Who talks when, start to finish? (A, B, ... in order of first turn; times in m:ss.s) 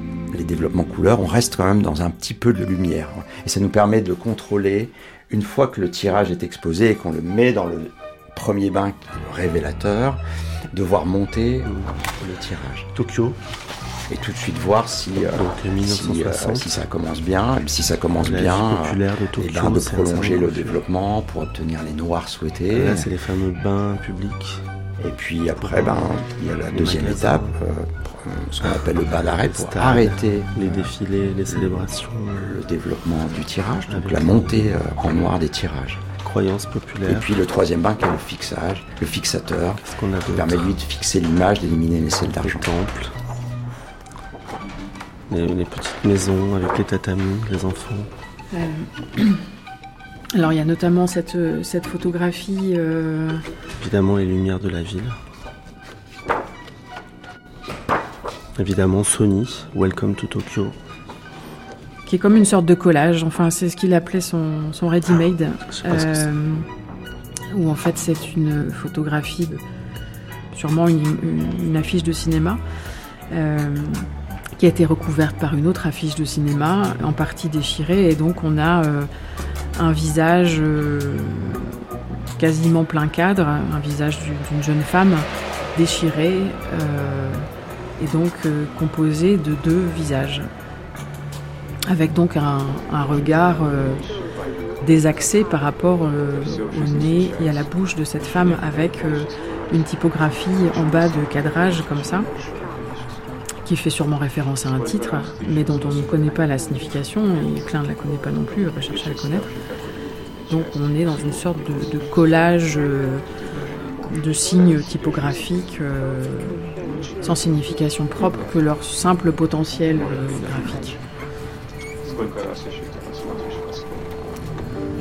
0:00.3-0:10.2 A
0:10.7-0:12.9 A
0:11.6-0:12.3 B
0:12.9-0:13.4 B
0:14.1-0:23.1 A
0:15.4-0:16.7 B
0:18.2-0:20.8 B
0:22.7-0:24.6 B
0:25.0-0:30.9 A
0:25.6-0:26.1 B
0:26.7-0:27.5 B
0:28.6-0:32.6 B
0:31.5-0:36.0 A
0:33.9-0:34.7 B
0:36.2-0:37.3 B
0:37.1-0:42.7 A
0:39.8-0:40.7 B
0:42.5-0:43.1 B
0:45.3-0:48.1 B
0:48.5-0:49.4 C
0:50.3-0:53.4 C
0:53.8-0:55.2 B
0:58.6-1:00.8 B
1:02.1-1:06.7 C
1:05.7-1:06.3 B
1:07.5-1:09.6 C
1:10.5-1:12.6 C
1:13.3-1:14.1 C
1:14.6-1:19.1 C
1:19.8-1:21.8 C
1:22.4-1:27.5 C
1:28.0-1:30.5 C
1:31.9-1:34.1 C
1:34.8-1:42.3 C
1:43.6-1:49.5 C
1:50.5-1:53.2 C
1:54.1-1:56.6 C
1:57.2-2:01.0 C